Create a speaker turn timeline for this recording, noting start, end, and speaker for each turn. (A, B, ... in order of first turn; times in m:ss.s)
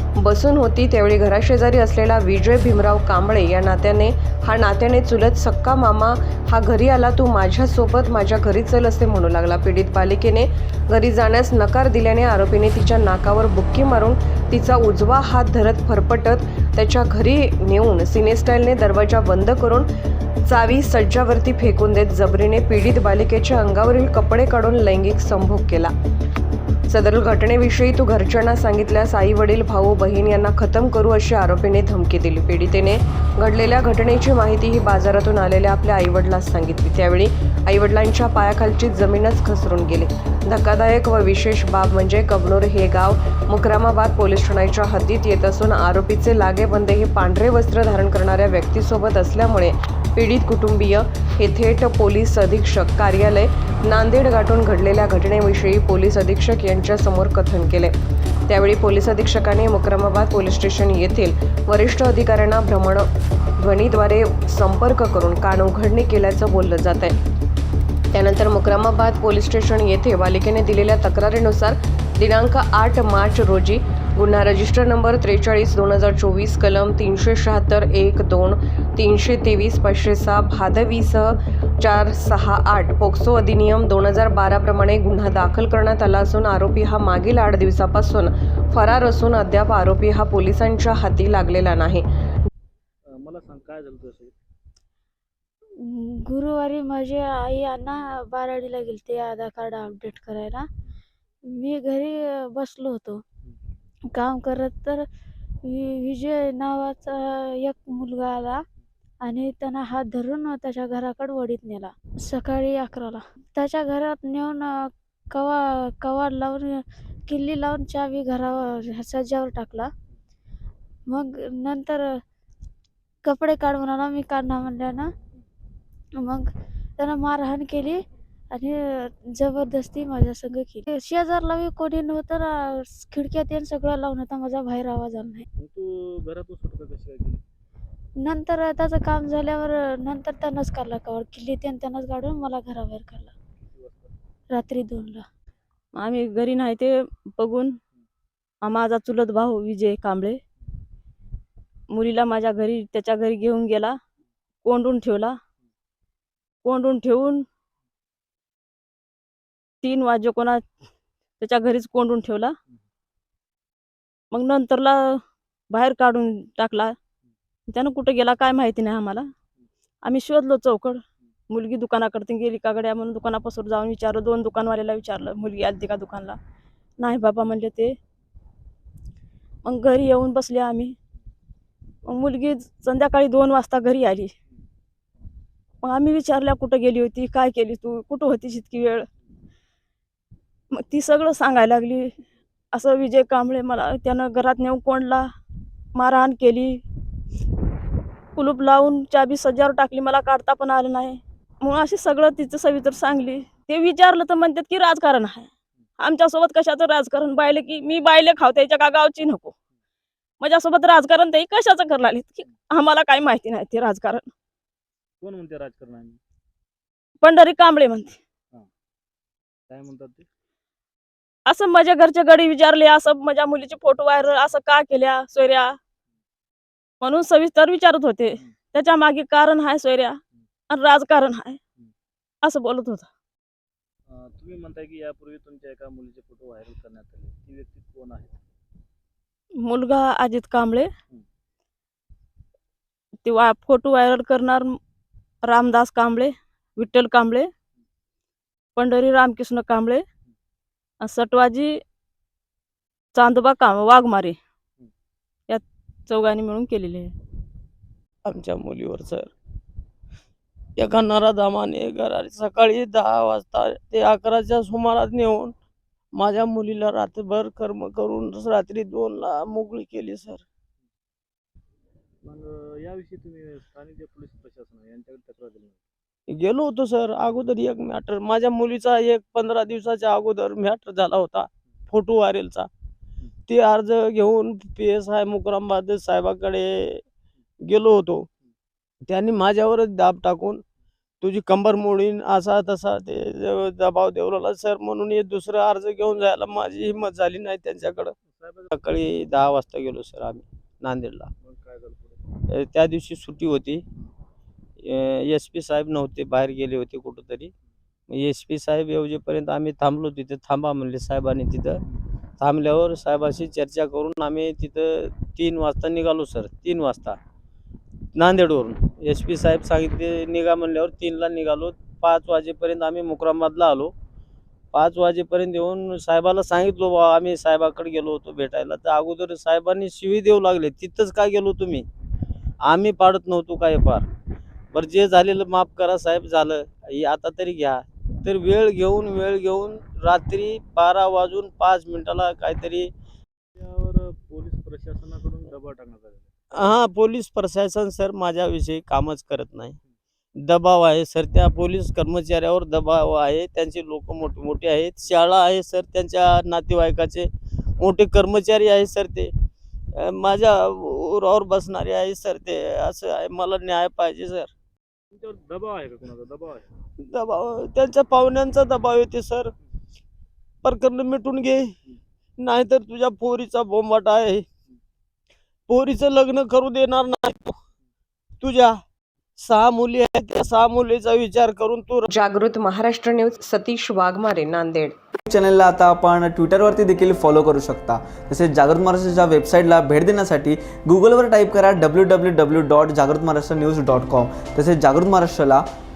0:00.2-0:19.9 A
0:20.4-0:25.9 A
0:26.9-0:57.9 A
0:58.5-1:03.1 A
1:03.6-1:07.1 A
1:08.1-1:32.1 A
1:33.1-1:34.3 B
1:35.8-1:40.6 C
1:41.4-1:43.2 C
1:44.1-1:45.0 C
1:45.6-1:48.6 C
1:49.2-1:59.9 C
2:01.1-2:02.2 C
2:03.2-2:05.1 C
2:06.2-2:08.0 C
2:08.5-2:15.4 C
2:15.6-2:17.4 B
2:18.2-2:23.3 C
2:23.7-2:24.1 B
2:24.5-2:25.2 C
2:25.9-2:27.8 D
2:28.6-2:30.4 D
2:31.9-2:34.0 D
2:34.6-2:35.4 D
2:36.6-2:37.4 D
2:39.8-2:40.6 D
2:41.4-2:42.6 D
2:44.3-2:45.2 D
2:45.7-2:47.0 D
2:47.7-2:49.3 D
2:50.0-2:56.4 D
2:57.0-2:58.0 D
2:59.6-3:00.9 D
3:02.0-3:04.3 D
3:05.8-3:09.1 D
3:10.7-3:12.1 D
3:12.7-3:15.3 D
3:15.9-3:16.8 D
3:18.3-3:29.5 D
3:30.4-3:34.3 D
3:35.2-3:36.2 B
3:37.2-3:38.2 D
3:39.7-3:40.2 B
3:41.5-3:45.8 D
3:47.0-3:50.2 D
3:50.7-3:51.6 D
3:52.4-3:53.1 D
3:54.1-3:58.4 B
3:59.6-4:00.9 D
4:03.2-4:04.8 D
4:05.4-4:07.5 D
4:08.8-4:10.0 D
4:11.0-4:11.8 D
4:13.1-4:14.4 D
4:15.5-4:17.1 D
4:18.2-4:19.3 E
4:20.8-4:25.5 E
4:26.1-4:30.4 E
4:32.2-4:35.8 B
4:36.3-4:42.7 E
4:43.5-4:47.0 E
4:47.6-4:48.3 E
4:49.0-4:50.6 E
4:51.2-4:58.1 E
4:58.2-4:58.7 B
4:58.7-5:01.3 E
5:01.4-5:02.2 B
5:02.4-5:03.8 E
5:04.8-5:07.5 E
5:08.1-5:11.8 E
5:12.4-5:17.2 E
5:18.1-5:23.9 E
5:24.7-5:31.8 E
5:32.6-5:34.0 E
5:34.7-5:42.9 E
5:43.6-5:46.3 B
5:46.5-5:49.8 E
5:50.4-5:59.3 E
5:59.9-6:04.5 E
6:05.1-6:06.7 B
6:07.0-6:09.5 E
6:10.6-6:11.7 E
6:12.4-6:14.4 E
6:15.7-6:17.5 E
6:18.4-6:18.8 E
6:19.4-6:22.1 E
6:22.1-6:24.9 A
6:25.3-6:35.6 F